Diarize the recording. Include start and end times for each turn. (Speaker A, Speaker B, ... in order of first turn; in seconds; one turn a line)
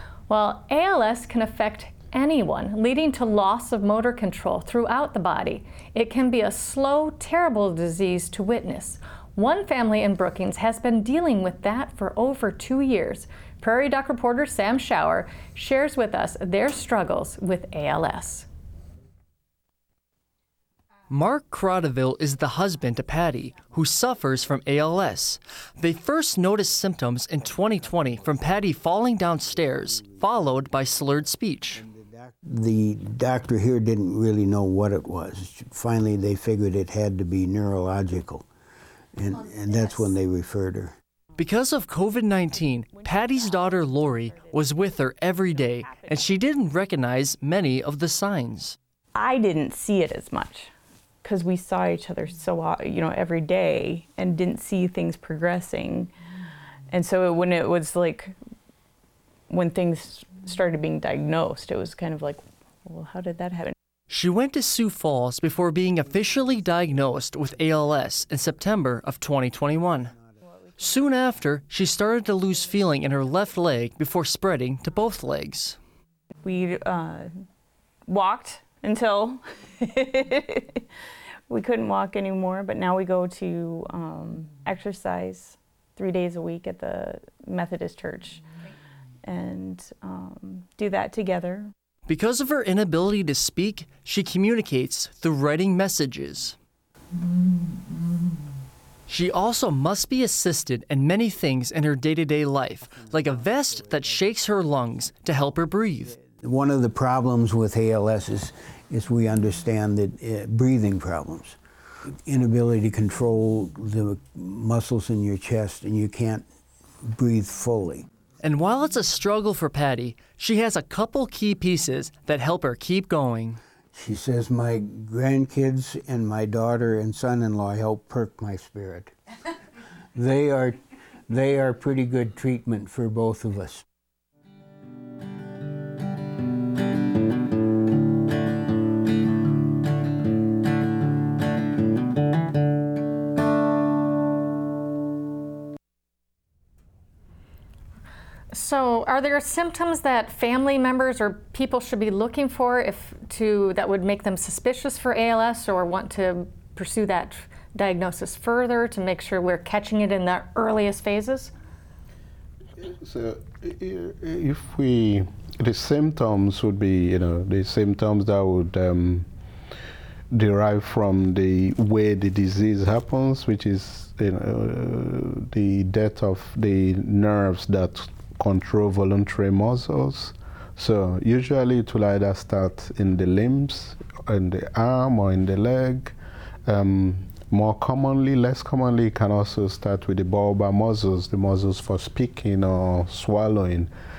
Speaker A: 0.3-18.5
Speaker B: 21.1-31.8
Speaker C: 31.8-38.5
Speaker C: 39.1-40.9
Speaker B: 41.4-48.8
Speaker D: 49.1-50.7
Speaker D: 51.2-56.1
Speaker D: 56.9-58.4
Speaker D: 59.5-63.8
Speaker B: 64.1-70.1
Speaker B: 70.8-75.8
Speaker D: 76.4-77.4
Speaker D: 78.1-80.9
Speaker D: 81.5-88.5
Speaker D: 89.2-91.7
Speaker B: 92.1-96.6
Speaker B: 99.1-106.2
Speaker C: 106.2-111.6
Speaker C: 112.3-116.4
Speaker C: 117.0-118.1
Speaker B: 118.4-123.6
Speaker C: 123.9-129.1
Speaker C: 130.2-133.8
Speaker A: 148.5-161.5
Speaker E: 162.8-169.3
Speaker E: 170.3-193.9